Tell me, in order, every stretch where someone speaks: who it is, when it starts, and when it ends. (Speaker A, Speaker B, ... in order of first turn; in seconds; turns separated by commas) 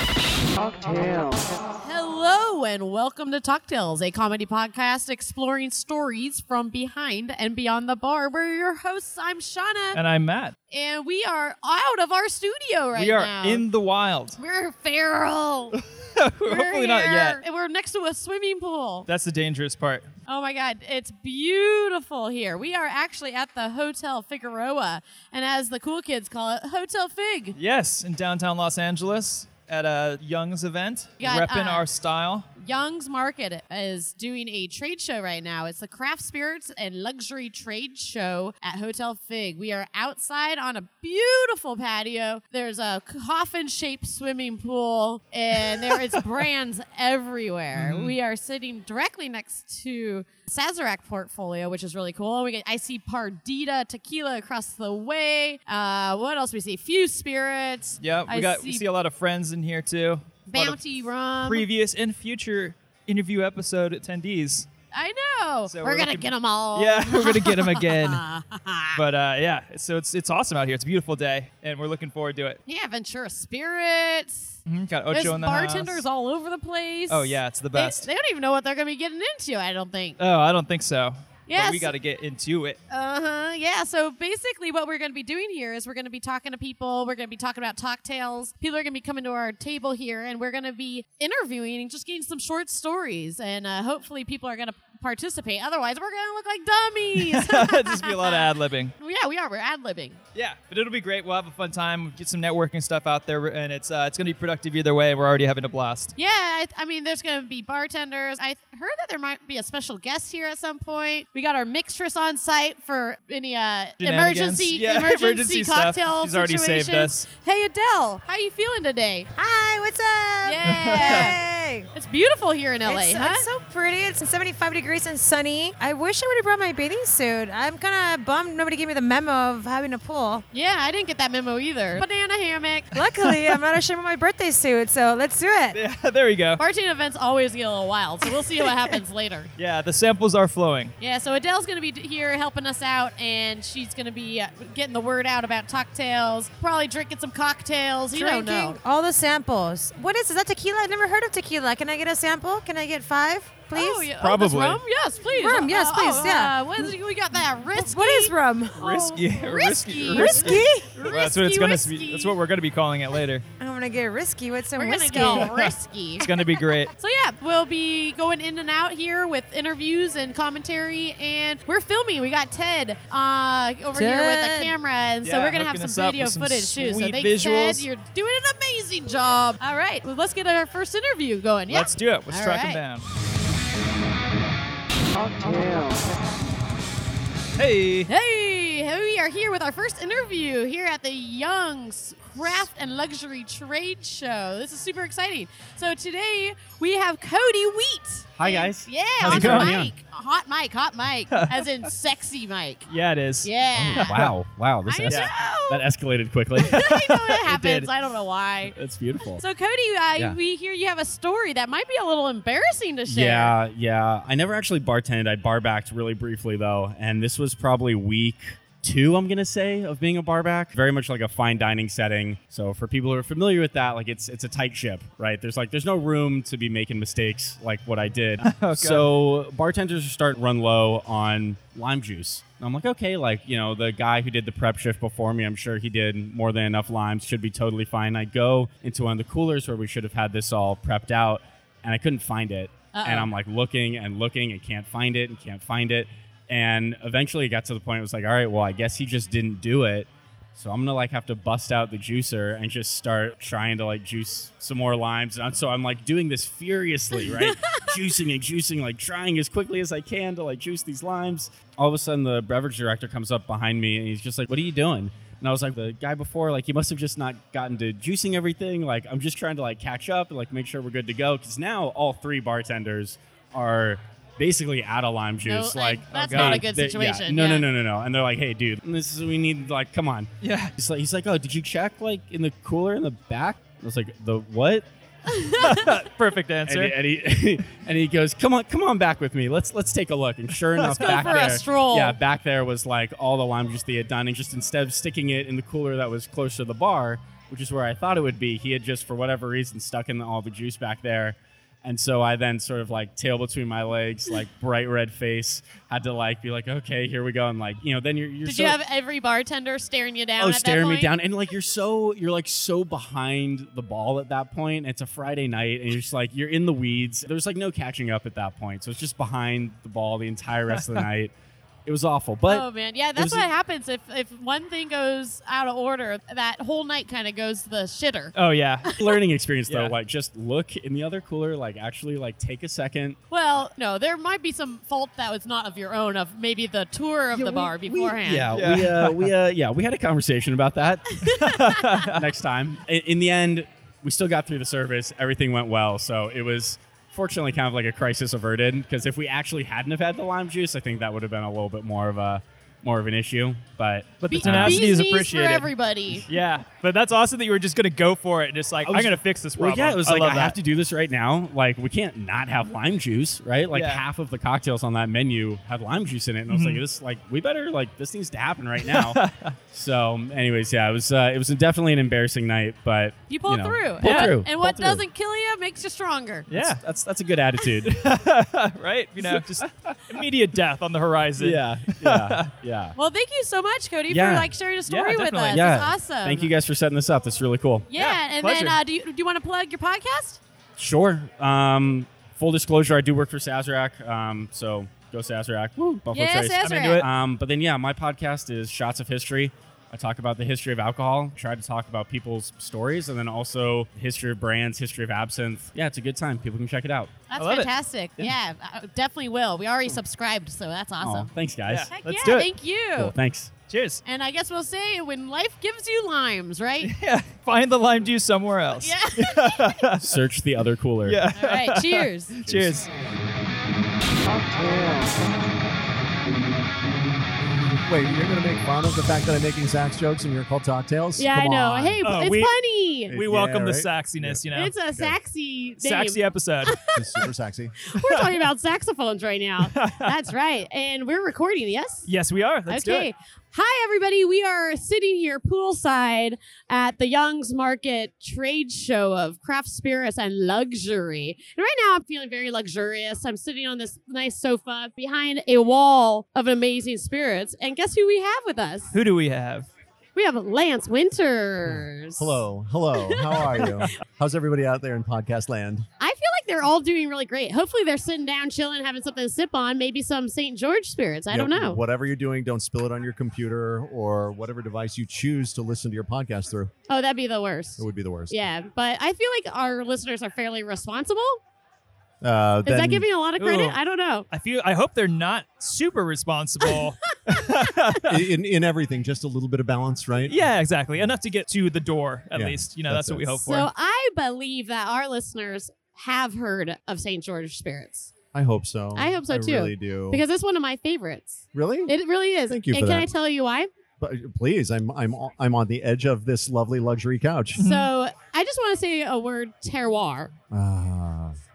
Speaker A: 1.8-10.0, Speaker B: 9.9-10.5, Speaker A: 10.7-13.6, Speaker B: 12.9-14.4, Speaker A: 14.3-15.8, Speaker B: 16.1-17.4, Speaker A: 16.4-19.1, Speaker B: 19.1-20.1, Speaker A: 20.2-27.6, Speaker B: 27.6-32.5, Speaker A: 31.2-31.9, Speaker A: 32.6-58.8, Speaker B: 45.7-46.0, Speaker B: 47.7-48.1, Speaker B: 58.0-60.8, Speaker A: 60.5-61.7, Speaker B: 61.4-64.7, Speaker A: 64.9-69.0, Speaker B: 65.7-68.2, Speaker B: 68.9-72.6, Speaker A: 72.7-74.6, Speaker B: 74.7-76.0, Speaker A: 75.1-80.2, Speaker B: 77.1-78.1, Speaker B: 80.2-82.8, Speaker A: 81.5-81.9, Speaker A: 82.9-98.5, Speaker B: 97.2-98.9, Speaker A: 99.0-100.2, Speaker B: 100.3-106.1, Speaker A: 106.2-119.3, Speaker B: 114.0-117.3, Speaker C: 119.3-121.9, Speaker A: 120.4-121.3, Speaker B: 120.6-121.3, Speaker A: 121.9-123.5, Speaker C: 122.8-130.4, Speaker A: 130.5-132.9, Speaker C: 132.9-135.8, Speaker B: 135.7-136.6, Speaker A: 136.6-139.5, Speaker B: 138.6-139.0, Speaker B: 139.6-140.9, Speaker A: 141.0-148.8, Speaker C: 148.1-154.1, Speaker A: 153.7-162.3, Speaker D: 154.2-154.8, Speaker B: 154.4-154.7, Speaker C: 155.3-156.5, Speaker C: 157.7-159.3, Speaker B: 158.8-163.4, Speaker C: 160.1-161.1, Speaker C: 163.6-165.7, Speaker A: 164.8-166.4, Speaker B: 165.3-165.7, Speaker B: 166.2-166.9, Speaker A: 166.9-182.8, Speaker C: 173.9-174.7, Speaker B: 175.2-177.9, Speaker B: 181.7-183.0, Speaker B: 187.6-188.1, Speaker A: 188.1-202.9, Speaker D: 198.3-199.9, Speaker B: 199.2-199.8, Speaker B: 201.3-201.7, Speaker B: 202.9-204.3, Speaker A: 203.4-204.2, Speaker D: 203.8-207.1, Speaker A: 204.9-205.8, Speaker B: 205.1-205.3, Speaker A: 206.6-208.8, Speaker B: 206.8-207.9, Speaker D: 208.7-209.4, Speaker A: 209.4-213.5, Speaker D: 213.1-284.9, Speaker B: 228.4-229.1, Speaker A: 242.9-243.3, Speaker A: 275.4-277.7, Speaker B: 276.1-276.7, Speaker B: 280.4-280.7, Speaker B: 285.6-286.9, Speaker D: 286.6-308.8, Speaker A: 290.9-292.2, Speaker A: 308.4-311.1, Speaker D: 310.4-321.3, Speaker B: 320.7-321.0, Speaker D: 321.9-323.5, Speaker A: 322.5-329.1, Speaker B: 328.3-328.9, Speaker D: 329.0-333.2, Speaker B: 329.7-329.9, Speaker A: 333.3-338.5, Speaker D: 337.3-354.9, Speaker B: 338.5-339.3, Speaker B: 341.4-342.2, Speaker B: 354.2-355.7, Speaker A: 354.3-356.2, Speaker B: 356.3-360.6, Speaker D: 358.8-369.2, Speaker B: 363.7-364.0, Speaker B: 366.5-366.8, Speaker B: 368.8-369.6, Speaker D: 369.7-375.0, Speaker A: 373.3-376.5, Speaker B: 374.0-374.3, Speaker B: 376.5-376.8, Speaker D: 376.5-378.1, Speaker B: 377.9-382.5, Speaker D: 379.2-380.0, Speaker D: 381.4-382.9, Speaker A: 382.9-386.5, Speaker D: 384.1-384.5, Speaker B: 384.9-385.7, Speaker D: 385.5-387.9, Speaker A: 387.9-390.4, Speaker B: 387.9-388.8, Speaker D: 390.8-407.2, Speaker A: 396.1-397.0, Speaker B: 396.6-397.1, Speaker A: 407.3-411.3, Speaker B: 407.4-408.3, Speaker D: 411.0-411.9, Speaker B: 411.7-412.5, Speaker A: 411.9-413.1, Speaker D: 413.0-413.5, Speaker B: 413.7-414.0, Speaker A: 414.0-416.9, Speaker B: 416.8-420.1, Speaker A: 418.8-419.7, Speaker D: 420.0-421.2, Speaker B: 421.0-422.9, Speaker A: 421.3-422.4, Speaker E: 427.8-432.0, Speaker A: 431.2-433.1, Speaker B: 432.0-432.5, Speaker B: 433.1-434.7, Speaker E: 433.1-434.4, Speaker A: 434.5-437.2, Speaker B: 435.8-436.8, Speaker E: 436.9-437.9, Speaker A: 437.9-442.1, Speaker B: 439.7-440.1, Speaker B: 442.1-443.1, Speaker A: 442.7-458.9, Speaker B: 458.9-459.7, Speaker A: 460.1-462.4, Speaker E: 462.2-465.9, Speaker A: 463.0-463.8, Speaker A: 466.0-471.8, Speaker E: 471.3-476.7, Speaker A: 476.9-481.4, Speaker E: 477.8-478.3, Speaker E: 482.2-483.1, Speaker A: 482.6-484.2, Speaker B: 483.4-483.8, Speaker B: 484.3-488.2, Speaker E: 488.1-490.4, Speaker B: 490.3-493.7, Speaker E: 492.3-493.4, Speaker A: 493.4-498.1, Speaker E: 498.3-500.2, Speaker A: 498.9-503.7, Speaker E: 501.5-501.9, Speaker E: 502.5-503.1, Speaker E: 504.0-507.6, Speaker B: 507.6-507.9, Speaker A: 507.6-510.3, Speaker E: 510.5-511.4